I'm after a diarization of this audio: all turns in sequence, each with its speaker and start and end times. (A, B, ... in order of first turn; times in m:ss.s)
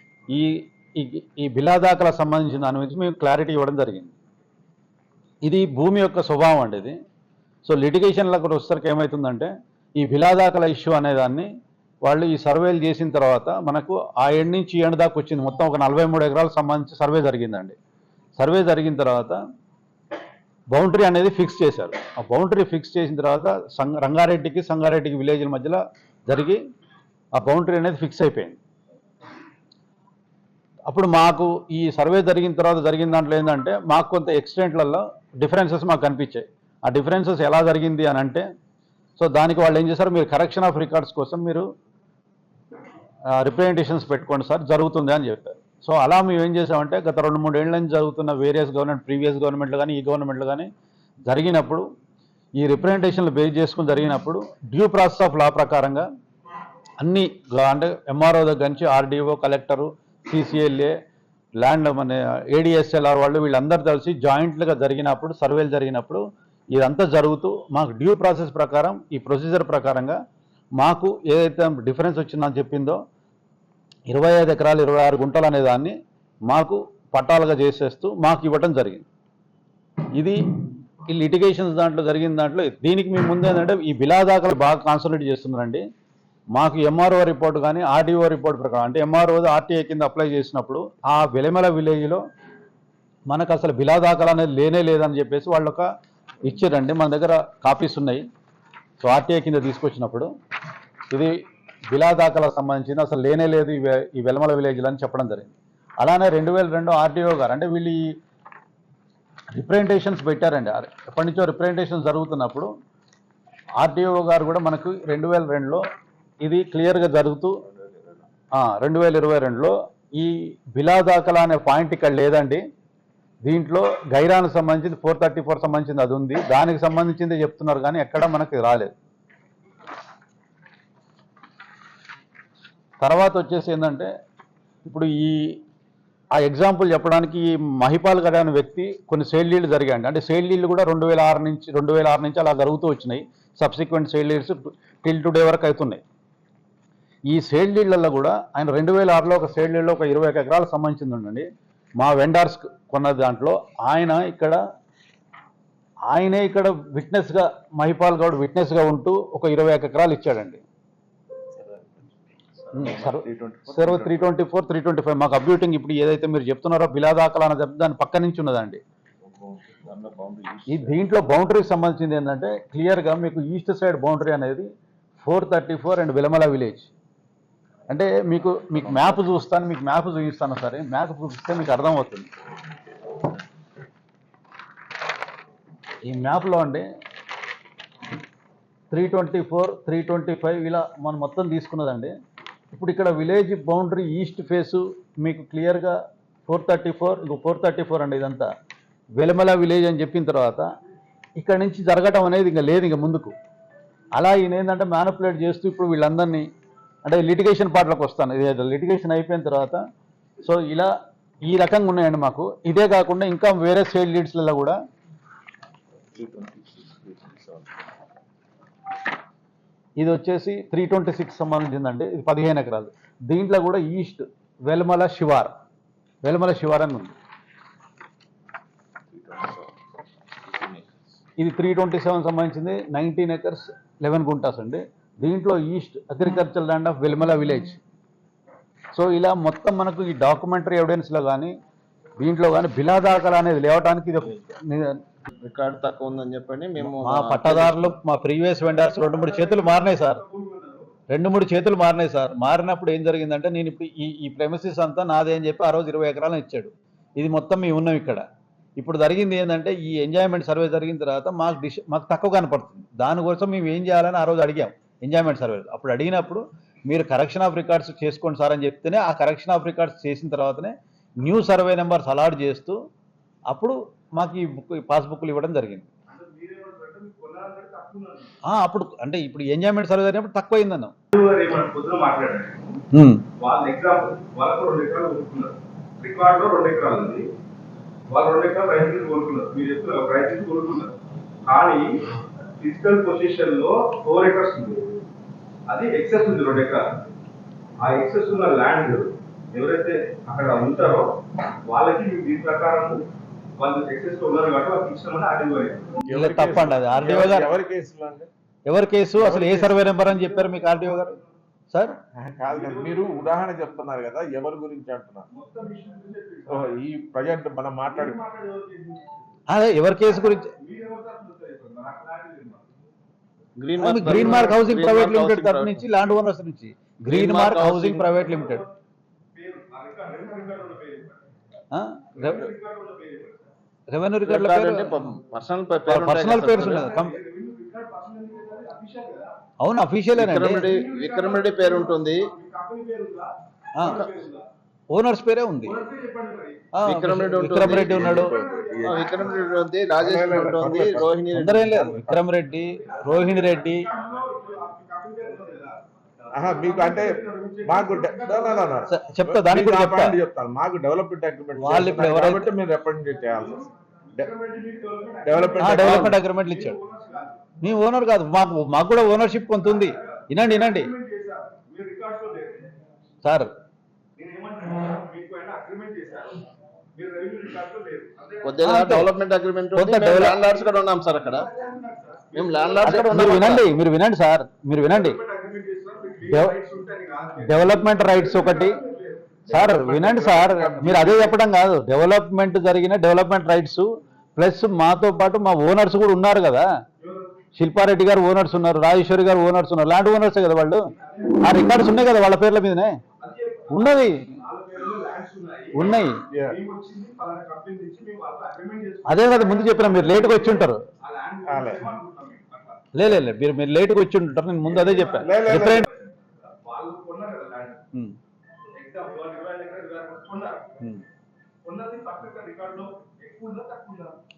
0:00.3-0:04.1 A
0:05.4-0:07.0 A
0:07.6-0:11.5 A
0:12.0-0:17.8 A
0:18.4-0:19.4 A
0:20.7-0:26.6 A
0:27.4-0:28.6 A
0:30.9-0:38.4 A
0:39.2-0:41.7 A
0:43.3-0:50.7 A
0:51.3-0:51.8 A
0:52.6-0:56.1 A
0:57.0-1:01.0 A
1:01.6-1:06.2 A
1:06.8-1:10.2 A
1:10.8-1:13.0 A
1:14.1-1:16.0 A
1:16.5-1:19.0 A
1:20.2-1:20.4 A
1:21.1-1:25.8 A
1:26.6-1:32.2 A
1:33.3-1:35.9 A
1:36.4-1:38.2 A
1:39.0-1:40.3 A
1:41.9-1:48.1 A
1:49.5-1:52.7 A
1:53.8-1:55.8 A
1:56.4-1:57.6 A
1:58.6-2:02.6 A
2:03.4-2:08.9 A
2:13.0-2:14.1 A
2:14.8-2:15.6 A
2:16.4-2:26.0 A
2:27.3-2:31.5 A
2:32.0-2:34.6 A
2:36.1-2:40.6 A
2:42.7-2:48.8 A
2:42.8-2:44.2 B
2:49.3-2:50.9 B
2:50.7-2:54.7 A
2:55.2-2:56.9 A
2:57.9-3:02.3 A
3:06.0-3:06.9 A
3:08.9-3:12.1 A
3:12.7-3:18.5 A
3:19.2-3:20.7 A
3:21.4-3:23.3 A
3:24.2-3:26.5 A
3:27.0-3:29.8 A
3:30.4-3:30.9 A
3:31.4-3:34.8 A
3:36.2-3:37.5 B
3:40.0-3:45.5 A
3:46.2-3:47.1 A
3:51.4-3:57.8 A
3:59.0-4:01.6 A
4:02.2-4:05.0 A
4:05.4-4:07.9 B
4:06.8-4:10.2 A
4:08.8-4:10.9 C
4:11.1-4:18.2 A
4:18.8-4:32.8 A
4:33.5-4:35.9 A
4:36.1-4:38.3 C
4:38.4-4:41.0 A
4:41.1-4:42.8 C
4:42.9-4:43.2 A
4:43.4-4:47.3 C
4:48.1-4:55.0 C
4:55.7-4:57.0 C
4:57.8-5:01.1 C
5:01.6-5:03.0 C
5:03.6-5:06.0 C
5:06.0-5:08.3 D
5:06.1-5:07.5 A
5:08.7-5:11.2 A
5:09.2-5:09.8 D
5:09.8-5:11.3 C
5:11.7-5:12.0 A
5:12.2-5:15.3 D
5:12.5-5:13.3 C
5:15.3-5:16.8 C
5:16.5-5:18.2 D
5:17.9-5:19.1 C
5:19.5-5:20.5 A
5:20.2-5:22.6 C
5:23.6-5:25.8 B
5:23.8-5:28.6 A
5:27.1-5:28.1 B
5:28.0-5:28.7 C
5:29.4-5:31.2 C
5:31.7-5:32.5 A
5:32.2-5:33.5 C
5:33.9-5:34.9 A
5:34.3-5:36.9 B
5:35.9-5:37.2 A
5:36.4-5:39.3 C
5:39.6-5:40.7 A
5:40.2-5:42.3 B
5:40.6-5:44.5 C
5:43.8-5:44.0 A
5:44.9-5:45.8 A
5:45.6-5:46.7 C
5:46.7-5:48.3 A
5:46.8-5:48.3 B
5:47.6-5:49.3 D
5:47.9-5:49.7 C
5:48.8-5:52.0 B
5:50.0-5:52.2 D
5:51.3-5:53.9 A
5:52.8-5:55.8 C
5:56.3-6:04.3 D
5:56.4-5:58.9 C
5:58.9-6:00.2 A
6:01.6-6:02.5 A
6:03.3-6:07.4 C
6:05.2-6:06.2 D
6:05.6-6:06.8 A
6:07.6-6:10.9 A
6:09.6-6:12.7 C
6:13.2-6:13.5 A
6:14.2-6:16.4 C
6:17.0-6:18.6 C
6:18.4-6:21.5 B
6:18.6-6:19.1 A
6:19.8-6:20.4 A
6:20.4-6:23.5 C
6:22.4-6:23.7 B
6:22.8-6:25.2 A
6:24.9-6:29.4 C
6:26.3-6:26.6 A
6:27.4-6:28.8 A
6:29.5-6:31.3 D
6:29.5-6:36.7 A
6:30.8-6:31.2 C
6:37.0-6:37.3 C
6:37.6-6:43.0 A
6:40.8-6:42.0 C
6:43.2-6:52.9 C
6:43.7-6:44.2 A
6:45.7-6:46.2 A
6:46.3-6:46.6 D
6:49.1-6:50.8 A
6:51.5-6:51.9 D
6:52.9-6:55.9 A
6:54.6-6:57.8 C
6:55.2-6:55.9 D
6:58.7-7:00.7 C
7:01.6-7:04.2 C